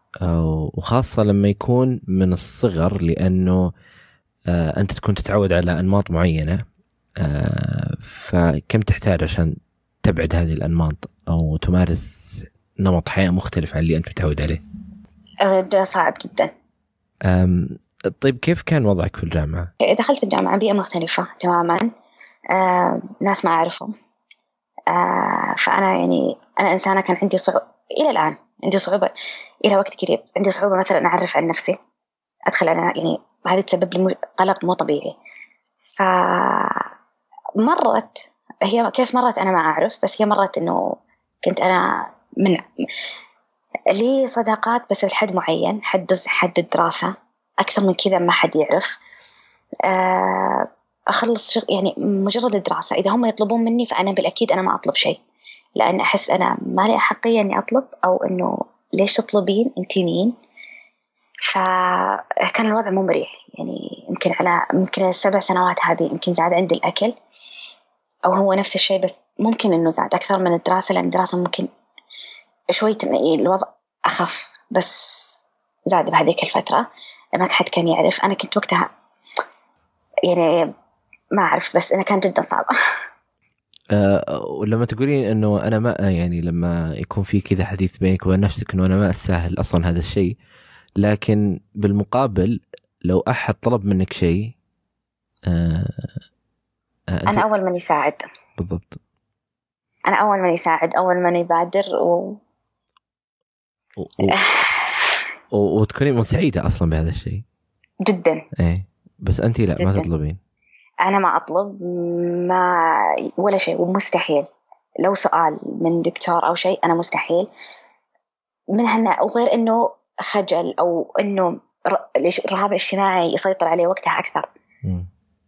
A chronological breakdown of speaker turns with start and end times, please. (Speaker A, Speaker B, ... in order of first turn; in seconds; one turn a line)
Speaker A: 0.2-3.7
Speaker A: 4.5-6.6
Speaker A: 7.2-14.6
Speaker B: 15.4-16.5
Speaker A: 17.2-19.7
Speaker B: 19.8-21.9
Speaker B: 22.5-23.9
Speaker B: 24.9-29.1
Speaker B: 29.6-31.8
Speaker B: 32.5-35.2
Speaker B: 35.9-36.9
Speaker B: 37.6-42.6
Speaker B: 43.9-49.0
Speaker B: 49.9-55.2
Speaker B: 55.8-60.3
Speaker B: 61.5-67.1
Speaker B: 68.3-71.7
Speaker B: 72.7-78.9
Speaker B: 80.3-80.7
Speaker B: 81.3-82.7
Speaker A: 83.9-90.4
Speaker A: 91.0-94.5
Speaker A: 95.5-96.2
Speaker A: 97.1-97.4
Speaker B: 97.3-98.2
Speaker A: 98.6-99.0
Speaker B: 100.1-102.4
Speaker A: 104.0-104.4
Speaker B: 104.2-105.2
Speaker A: 105.5-107.4
Speaker B: 108.0-108.4
Speaker A: 108.6-110.4
Speaker B: 109.8-110.1
Speaker B: 111.0-114.5
Speaker B: 115.0-117.5
Speaker B: 118.7-124.5
Speaker A: 124.8-125.1